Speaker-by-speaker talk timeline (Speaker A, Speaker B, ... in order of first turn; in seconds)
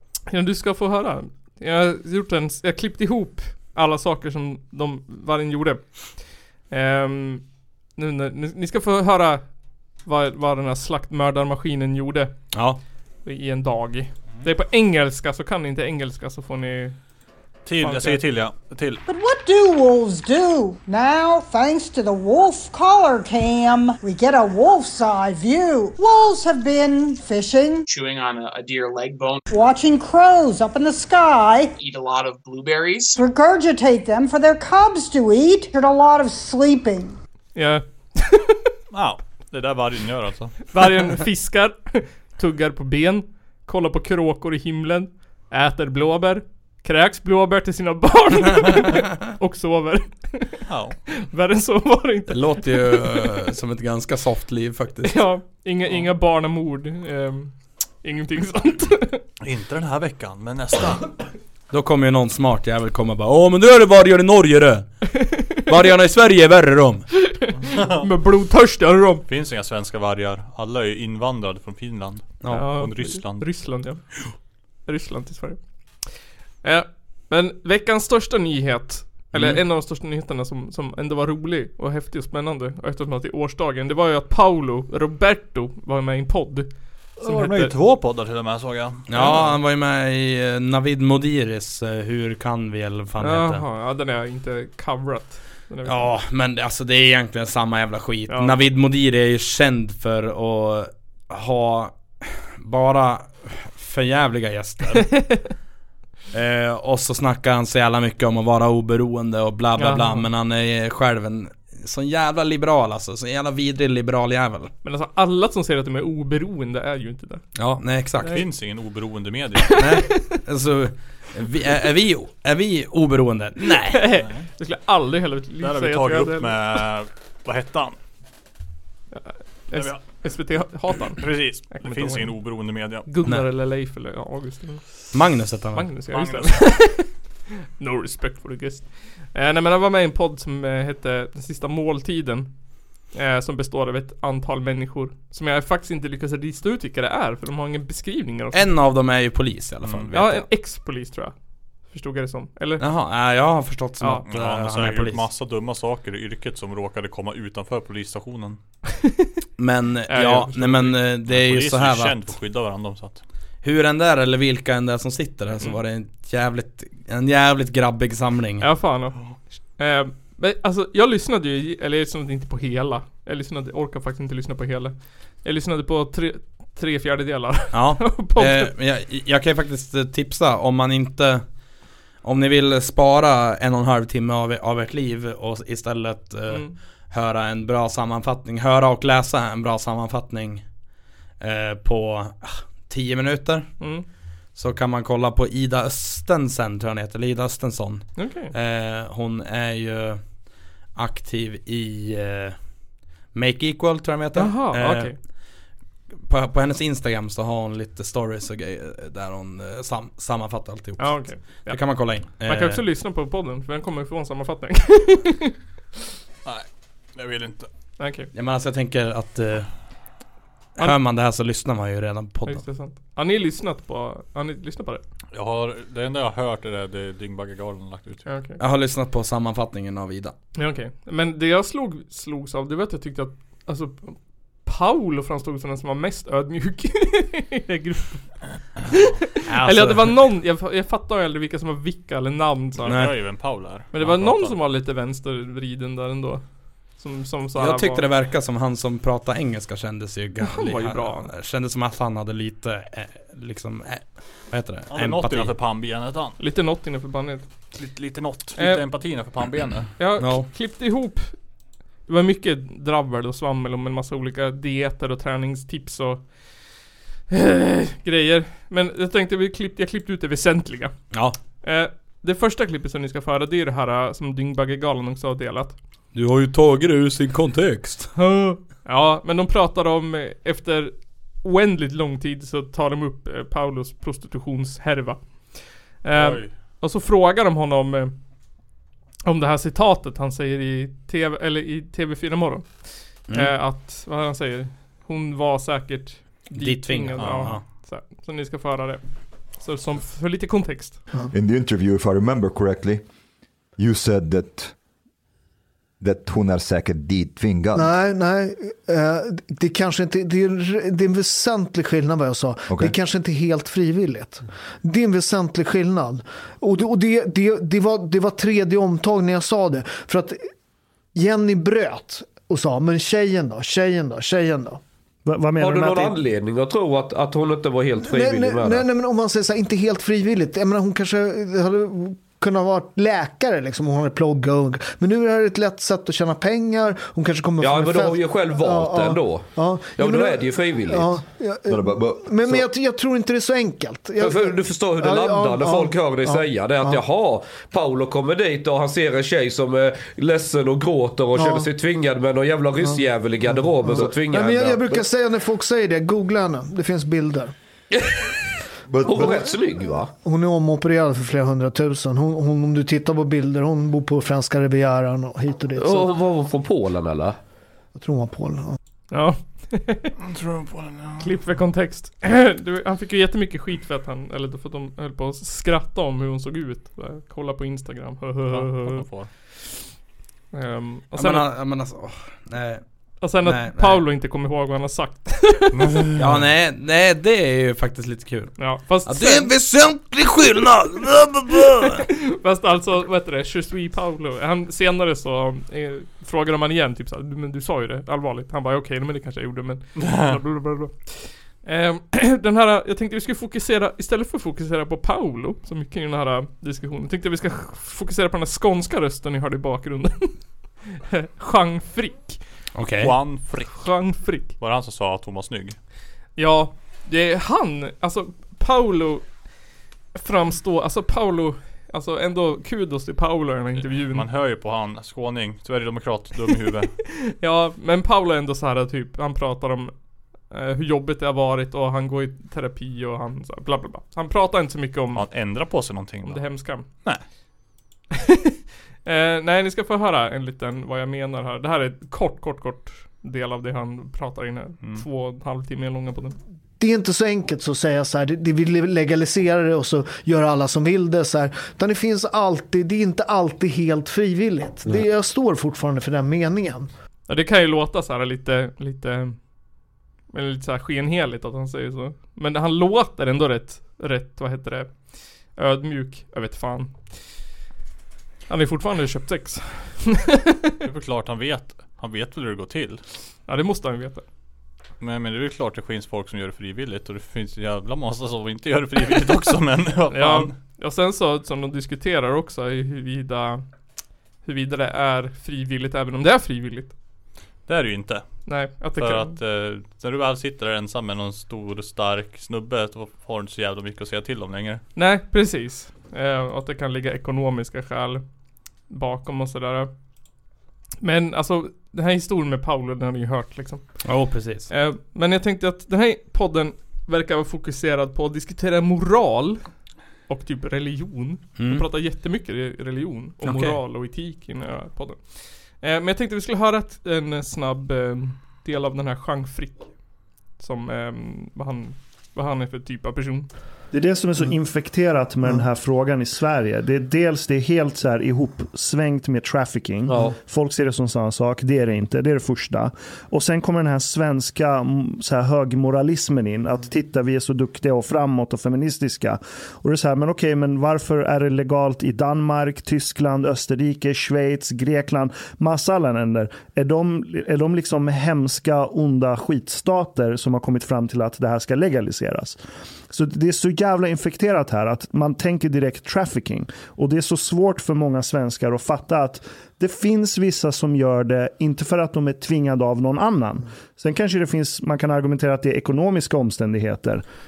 Speaker A: 0.3-9.4, 10.0-12.3, 13.2-17.0, 17.8-18.2, 37.5-38.6, 40.7-53.3, 55.0-59.2, 67.3-69.2, 72.5-74.1, 74.8-75.6, 76.6-87.7, 93.2-96.1, 98.3-98.6, 105.2-105.5, 109.8-110.3, 114.8-117.4, 119.7-120.4, 123.8-126.6, 129.1-132.5, 133.1-135.1, 135.7-137.1, 137.8-148.7, 150.1-151.3, 151.9-152.8, 154.0-154.2, 160.1-161.0, 168.6-178.7, 186.5-186.8, 193.8-194.1, 198.2-198.5, 204.3-205.2, 211.0-215.6, 218.0-218.3, 222.5-225.0, 228.3-228.6, 230.6-248.1, 250.4-251.3, 256.4-257.5, 258.6-258.8, 260.0-261.4, 262.1-266.6, 267.3-270.9, 271.6-275.8, 278.2-288.1, 289.3-299.0, 299.6-301.0, 369.1-370.1, 371.2-379.7, 380.5-381.5, 383.2-386.1, 388.6-389.5, 392.1-412.4, 413.8-414.5, 416.4-419.3, 420.1-424.3, 427.2-436.9, 439.1-446.4, 457.3-459.4, 460.3-467.2, 468.5-470.7, 473.5-474.2, 480.1-483.6, 484.4-486.9, 488.5-489.4, 495.0-498.2, 498.9-499.9, 501.0-504.1, 504.7-509.7, 510.3-519.9, 520.6-523.5
Speaker B: 12.5-12.8, 52.3-55.3, 61.7-65.1, 65.6-67.1, 72.4-72.8, 79.3-79.6, 89.1-93.6, 95.8-105.4, 106.3-114.7, 117.6-118.5, 119.8-124.1, 135.1-135.9, 148.5-150.4, 152.8-155.2, 159.6-162.3, 163.6-168.7, 177.7-181.4, 182.2-190.6, 191.4-193.8, 194.6-200.2, 200.9-202.6, 203.3-205.2, 206.2-212.8, 218.3-219.7, 220.8-222.7, 228.6-230.3, 239.5-240.3, 242.8-243.2, 247.6-255.6, 260.2-260.5, 271.1-271.4, 276.1-278.1, 293.3-293.5, 296.5-297.6, 381.1-384.0, 386.2-392.1, 412.8-413.2, 504.0-504.7, 511.6-511.9, 513.4-513.8
Speaker C: 17.7-19.0, 38.9-40.8, 50.7-51.0, 59.4-61.2, 67.6-68.0, 69.3-73.5, 87.2-89.5, 118.2-119.8, 125.6-128.0, 129.7-130.3, 131.1-133.1, 136.1-136.8, 149.8-150.1, 154.3-158.6, 161.2-163.2, 216.4-217.7, 225.3-228.3, 242.8-244.6, 254.9-256.4, 257.7-259.9, 286.1-286.5, 297.2-297.6, 370.2-371.3, 378.5-379.3, 385.7-386.3, 400.0-400.4, 413.0-415.8, 423.8-427.0, 435.1-437.2, 470.8-473.0, 475.0-480.6, 487.7-494.8
Speaker D: 19.1-27.9, 29.5-31.8, 33.1-37.2
Speaker E: 27.9-29.5, 31.8-33.2
Speaker F: 301.3-303.0, 303.8-304.8, 306.0-307.9, 312.7-312.9, 341.7-342.6, 358.9-359.4
Speaker G: 307.8-320.5, 321.1-324.8, 328.0-347.0, 351.4-351.7, 353.5-357.5, 359.1-359.5, 360.2-366.1, 367.9-368.8, 446.8-456.9
Speaker H: 325.2-326.2, 523.9-567.2
Speaker I: 325.6-328.9, 337.6-341.2, 344.2-355.1, 359.1-360.1, 365.8-367.4, 530.1-530.4